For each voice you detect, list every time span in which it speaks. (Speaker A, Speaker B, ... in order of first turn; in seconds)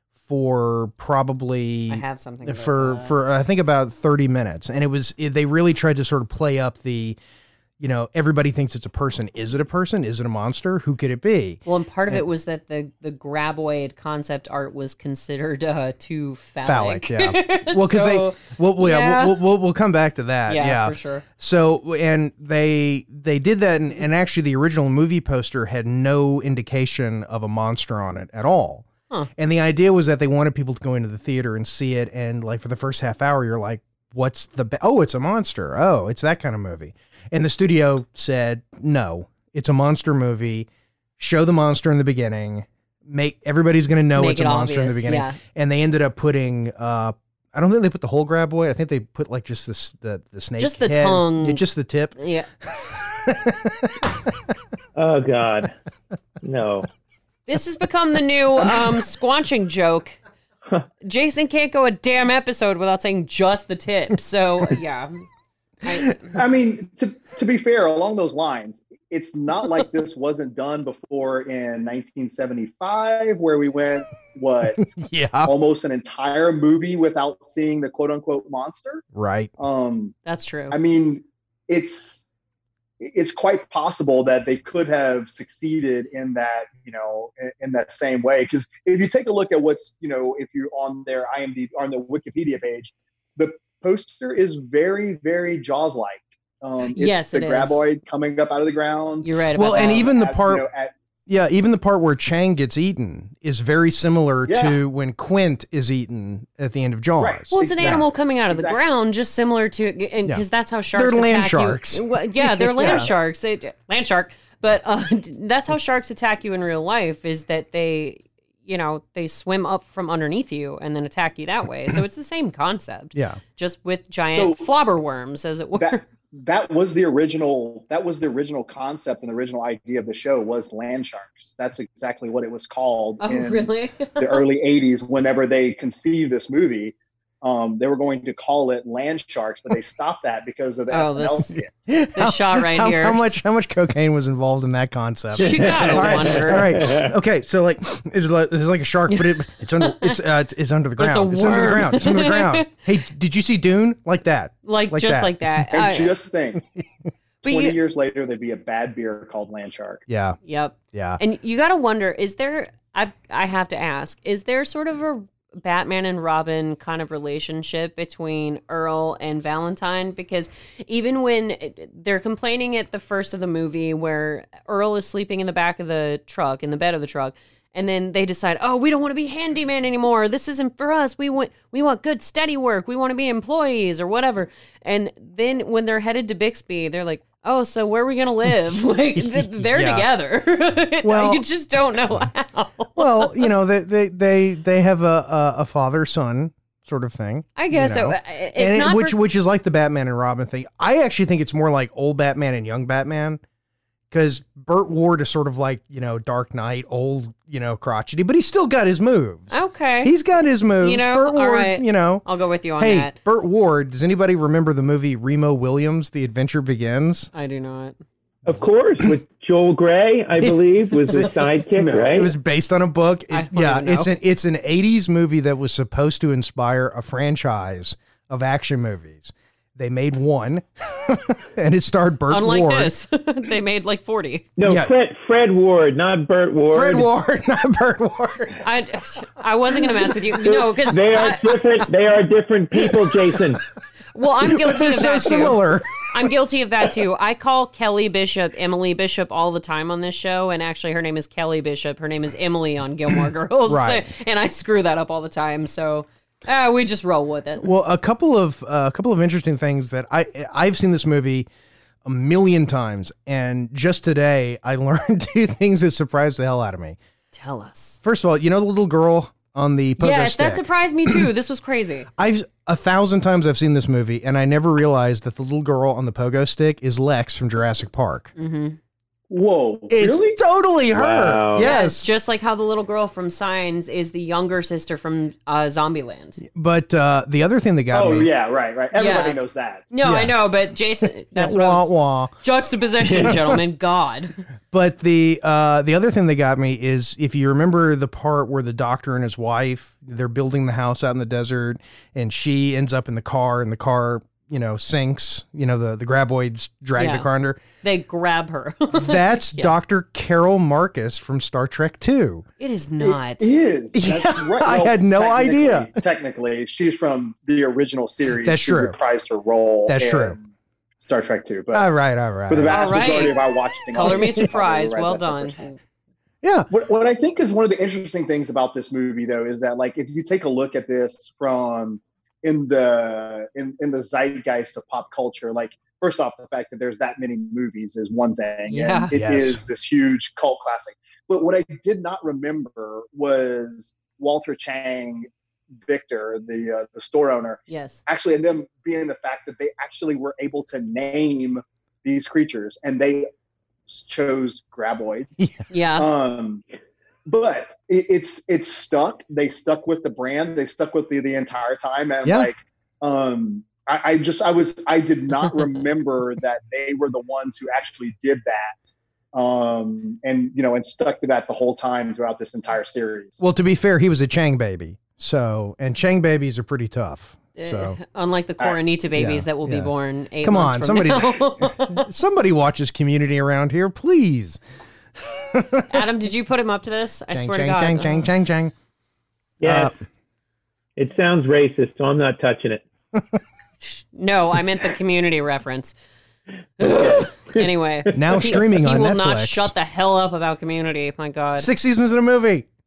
Speaker A: 0.2-7.2, 7.8-12.2, 16.6-54.1, 74.8-75.5, 79.1-79.5, 99.5-100.7, 101.3-108.0, 110.3-113.1, 123.1-123.4, 141.9-155.4, 160.1-160.4, 160.9-161.2, 189.1-190.1, 191.0-191.4, 193.0-203.4, 204.1-212.3, 212.8-217.3, 220.4-221.3, 222.0-232.9, 234.6-234.9, 236.7-238.6, 244.4-245.9, 253.7-254.1, 257.6-261.5, 262.1-267.0, 268.0-271.2, 272.2-278.3, 279.9-282.1, 286.4-288.3, 290.0-290.3, 291.3-292.4, 294.7-307.6, 308.9-312.4, 313.9-315.9, 318.4-319.0, 319.9-320.4, 321.7-323.4, 324.0-324.4, 326.4-326.7, 339.1-339.6, 362.2-362.5, 373.4-378.0, 379.2-384.6, 385.2-385.9, 387.3-388.7, 389.6-389.9, 398.1-399.7, 401.6-402.7
Speaker B: 1.9-3.2, 11.7-19.4, 20.5-21.2, 44.1-45.4, 50.6-51.6, 52.2-52.5, 57.5-60.2, 61.0-65.2, 65.8-66.3, 80.3-80.8, 97.0-97.8, 99.2-100.1, 107.5-126.0, 133.2-134.4, 140.9-141.6, 142.2-143.4, 145.4-146.9, 149.1-150.2, 151.0-152.7, 154.7-156.1, 157.4-157.8, 160.4-193.5, 197.6-199.2, 209.5-210.1, 210.8-213.2, 217.3-217.9, 223.3-224.1, 232.3-234.5, 238.6-241.5, 244.1-257.7, 267.3-268.0, 270.0-272.1, 278.4-278.8, 281.6-286.4, 288.9-289.4, 289.9-294.4, 306.9-307.3, 307.8-309.8, 312.6-313.5, 322.7-325.8, 338.7-339.1, 347.7-348.0, 355.7-356.1, 377.6-382.1, 385.9-388.3, 393.8-395.9, 396.8-401.7
Speaker C: 55.0-55.8, 56.4-56.9, 145.4-147.1, 218.5-222.3, 234.6-237.1, 240.6-243.6, 280.9-281.7, 389.6-389.9, 391.0-392.8, 396.8-398.4
Speaker D: 66.3-74.9, 75.5-79.0, 79.6-80.2, 80.7-82.3, 83.0-100.9, 104.5-104.8, 107.2-108.8, 112.8-113.1, 124.3-124.7, 125.8-141.9, 155.7-156.6, 157.4-160.0, 221.8-222.2, 279.3-280.4, 287.9-289.9, 313.0-320.4, 321.0-321.9, 322.5-325.6, 326.7-345.3, 345.8-353.3, 353.9-356.6, 357.3-373.4